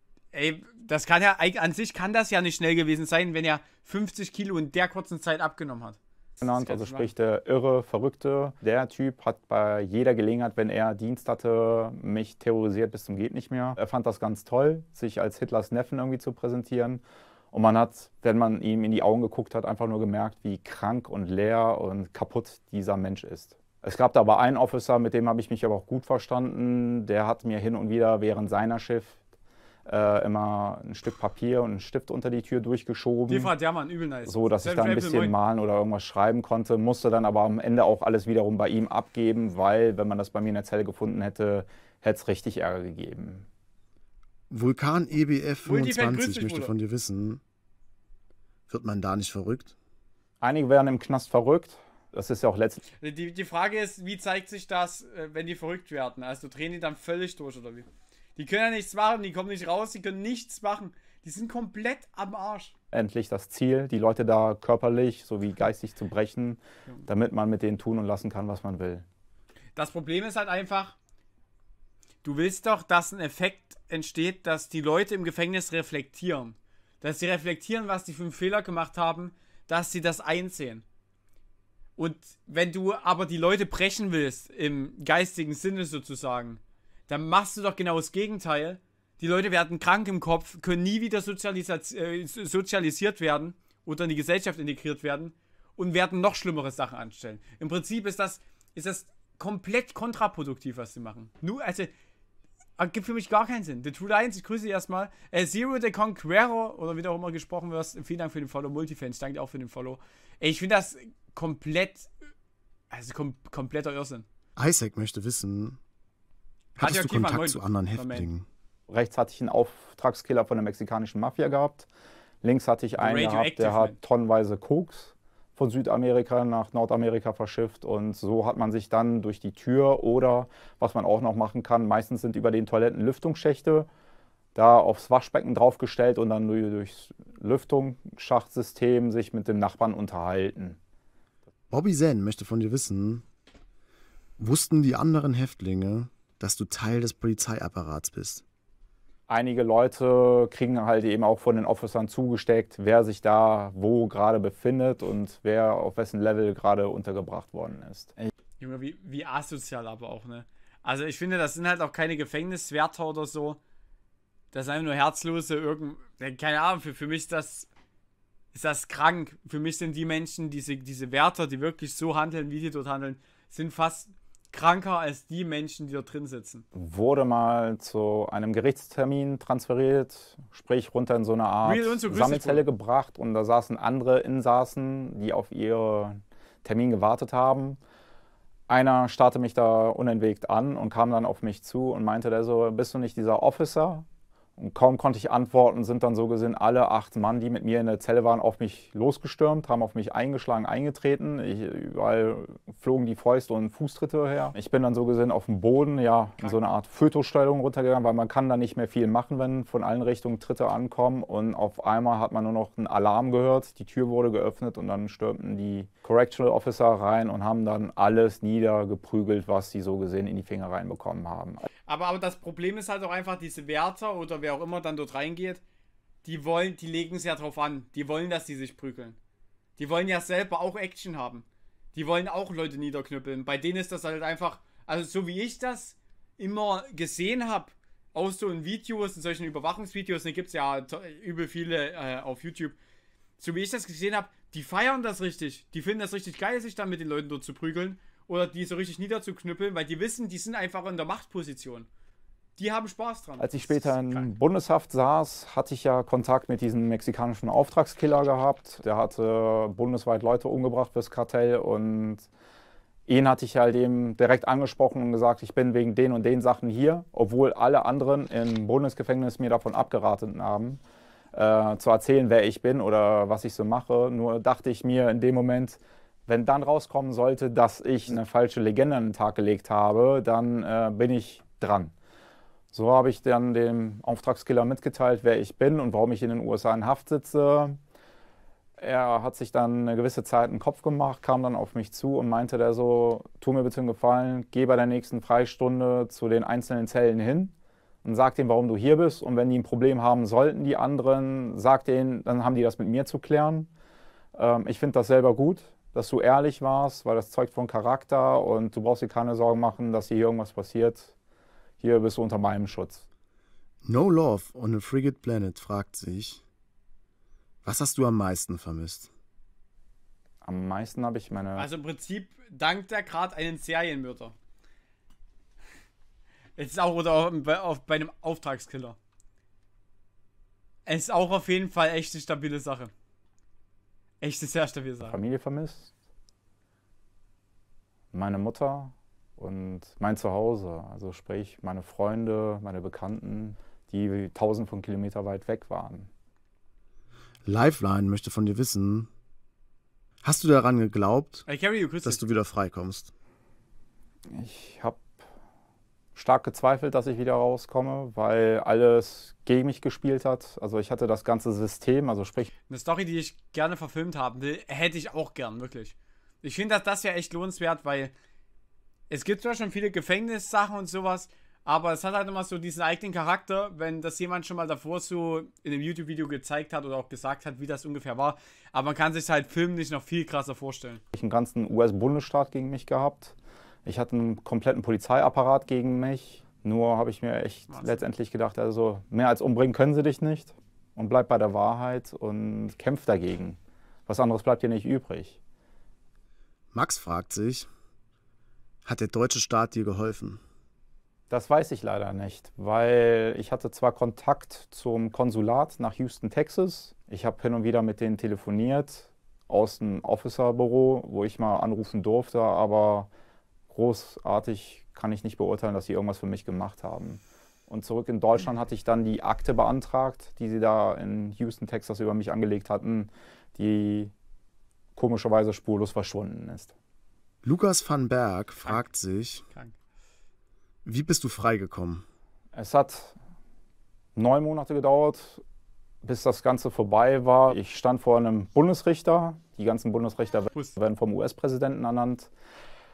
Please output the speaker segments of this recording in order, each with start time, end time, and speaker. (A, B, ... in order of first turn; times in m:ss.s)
0:00.3-0:07.1 A
0:06.4-0:29.2 B
0:29.8-0:33.5 B
0:33.3-0:35.4 A
0:34.2-0:43.5 B
0:44.5-0:47.4 C
0:45.6-0:46.7 A
0:48.7-0:49.7 C
0:50.4-0:52.8 B
0:53.0-1:02.7 A
1:02.9-1:09.0 B
1:09.8-1:11.0 A
1:12.2-1:20.8 A
1:22.0-1:41.9 A
1:42.8-1:52.1 A
1:52.9-1:54.2 A
1:54.6-1:55.8 C
1:56.8-1:58.4 C
1:56.8-1:58.2 A
1:58.9-2:01.9 B
2:02.4-2:13.9 B
2:03.0-2:04.0 A
2:14.5-2:20.8 B
2:21.7-2:23.2 C
2:24.4-2:28.4 C
2:29.3-2:38.2 B
2:38.6-2:43.6 A
2:44.5-2:47.7 A
2:48.5-2:56.6 A
2:56.7-3:07.8 B
3:01.6-3:02.6 A
3:08.7-3:14.0 B
3:14.6-3:41.7 B
3:41.9-3:45.6 A
3:46.2-3:49.2 A
3:49.8-4:02.8 A
4:03.4-4:11.9 A
4:12.6-4:14.3 A
4:13.4-4:22.3 B
4:23.1-4:30.8 B
4:31.3-4:41.9 B
4:42.7-4:47.8 B
4:48.8-5:03.7 B
5:04.3-5:11.1 B
5:11.8-5:13.0 B
5:13.8-5:16.4 C
5:17.6-5:19.1 C
5:20.4-5:21.7 B
5:21.6-5:24.3 A
5:26.6-5:29.0 A
5:30.8-5:32.9 A
5:34.2-5:35.2 A
5:35.0-5:35.9 B
5:38.1-5:46.1 B
5:47.4-5:49.1 C
5:50.2-5:51.5 C
5:51.4-5:52.3 A
5:52.0-5:53.1 C
5:54.3-5:55.1 B
5:56.1-6:02.5 B
6:02.7-6:08.1 A
6:09.1-6:21.0 A
6:21.1-6:35.4 B
6:27.7-6:28.0 A
6:36.7-6:37.7 C
6:38.8-6:40.4 C
6:41.3-6:53.1 B
6:53.7-7:04.1 B
7:04.9-7:06.7 B
7:07.4-7:09.4 C
7:09.5-7:09.8 A
7:10.8-7:12.0 C
7:12.5-7:13.2 B
7:14.2-7:15.4 B
7:16.0-7:22.3 B